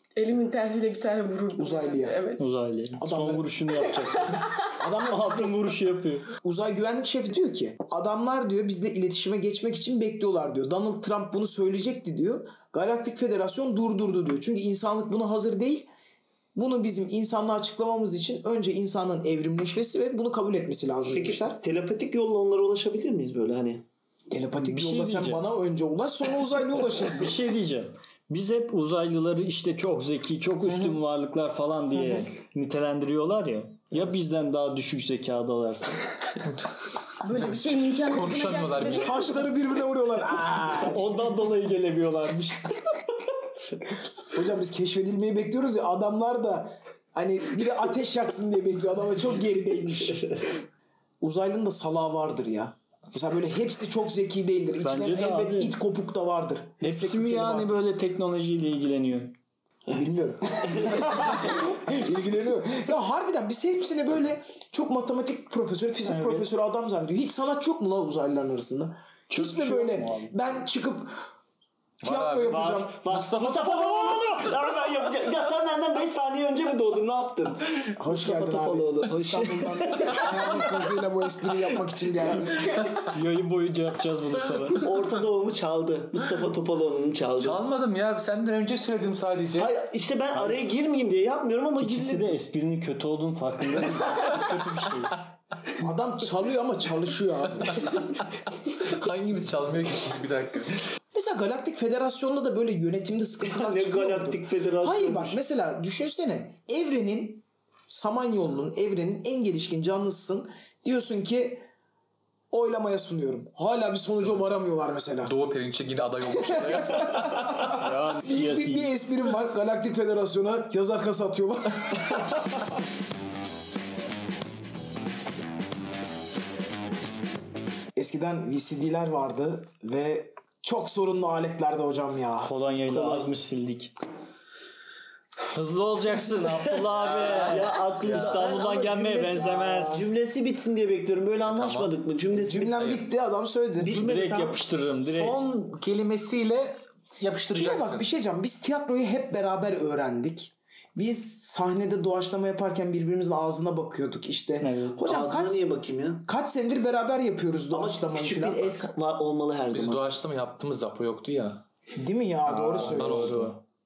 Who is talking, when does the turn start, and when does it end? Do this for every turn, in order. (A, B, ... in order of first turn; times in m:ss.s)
0:00.2-0:02.4 A
0:01.6-0:02.2 B
0:02.4-0:04.4 C
0:03.0-0:03.6 B
0:03.8-0:04.5 A
0:04.8-0:05.8 B
0:05.0-0:06.3 C
0:06.3-0:15.9 B
0:16.6-0:21.6 B
0:21.1-0:23.8 D
0:24.3-0:27.4 B
0:24.6-0:25.5 C
0:27.1-0:36.1 C
0:30.7-0:31.0 B
0:32.0-0:32.3 B
0:37.2-0:39.4 A
0:38.0-0:39.2 E
0:38.8-0:41.3 B
0:40.8-0:42.9 C
0:44.3-0:50.4 B
0:51.2-0:57.8 B
0:54.8-0:55.8 C
0:56.8-0:59.4 C
0:59.9-1:11.2 B
1:00.6-1:01.3 D
1:06.1-1:06.5 C
1:09.3-1:10.3 C
1:12.0-1:12.8 E
1:12.0-1:13.4 B
1:12.5-1:14.4 C
1:13.1-1:20.8 D
1:18.0-1:22.9 B
1:23.1-1:24.9 C
1:24.8-1:27.6 D
1:27.4-1:29.7 E
1:29.6-1:32.4 D
1:31.8-1:35.2 C
1:35.8-1:37.9 B
1:37.7-1:40.8 E
1:41.1-1:51.7 B
1:43.4-1:45.4 D
1:52.5-1:55.4 B
1:55.2-1:57.7 E
1:56.4-2:02.2 B
1:57.7-1:59.0 C
2:08.0-2:12.5 B
2:12.4-2:13.9 C
2:12.9-2:13.3 D
2:15.5-2:20.1 C
2:16.9-2:18.4 E
2:17.2-2:22.8 D
2:18.5-2:20.1 B
2:21.4-2:21.9 E
2:22.3-2:24.0 B
2:22.7-2:23.0 E
2:23.8-2:24.6 D
2:23.8-2:25.4 C
2:25.0-2:28.0 E
2:27.6-2:35.7 B
2:34.6-2:35.0 C
2:35.0-2:36.2 D
2:36.2-2:38.8 B
2:37.7-2:40.0 D
2:39.7-2:41.6 E
2:42.0-2:43.5 B
2:42.5-2:43.6 C
2:42.7-2:43.6 E